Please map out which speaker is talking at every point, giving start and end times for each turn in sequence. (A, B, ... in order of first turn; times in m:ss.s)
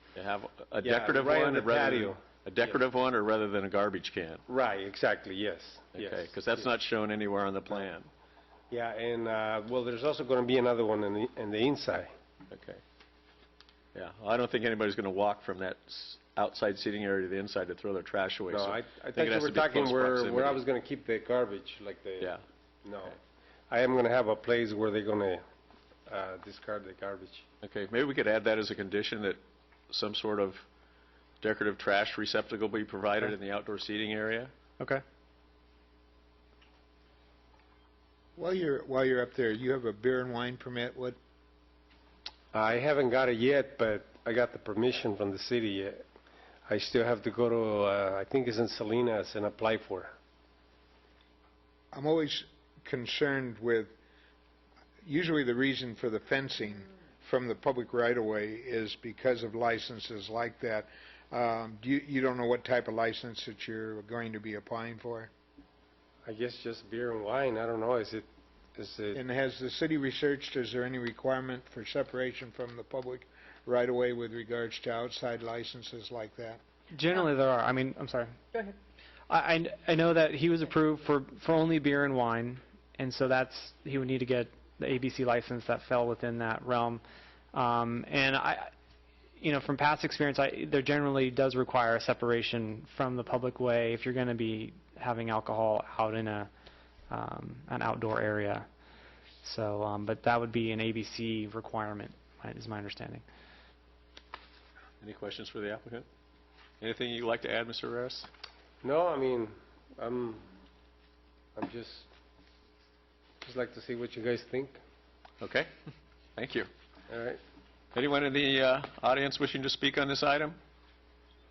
0:00.2-0:04.4 A
0:00.8-0:02.7 B
0:04.5-0:06.7 B
0:06.0-0:08.1 A
0:08.7-0:12.1 B
0:12.5-0:12.8 A
0:14.0-0:20.6 A
0:18.5-0:23.2 B
0:23.7-0:25.4 B
0:26.1-0:27.4 B
0:27.6-0:30.7 A
0:31.4-0:34.5 A
0:38.4-0:41.2 C
0:42.5-0:46.0 B
0:46.7-0:50.1 B
0:51.9-0:54.0 C
0:55.0-1:05.3 C
1:06.2-1:09.2 B
1:09.2-1:16.6 C
1:16.9-1:18.4 D
1:19.3-1:27.0 D
1:27.5-1:28.7 D
1:29.4-1:36.5 D
1:37.1-1:38.7 D
1:39.4-1:43.2 D
1:45.0-1:46.1 A
1:46.8-1:48.3 A
1:48.8-1:50.5 B
1:51.6-1:52.1 B
1:53.4-1:54.8 B
1:55.4-1:55.7 A
1:56.4-1:56.7 A
1:57.1-1:57.4 B
1:57.9-2:00.6 A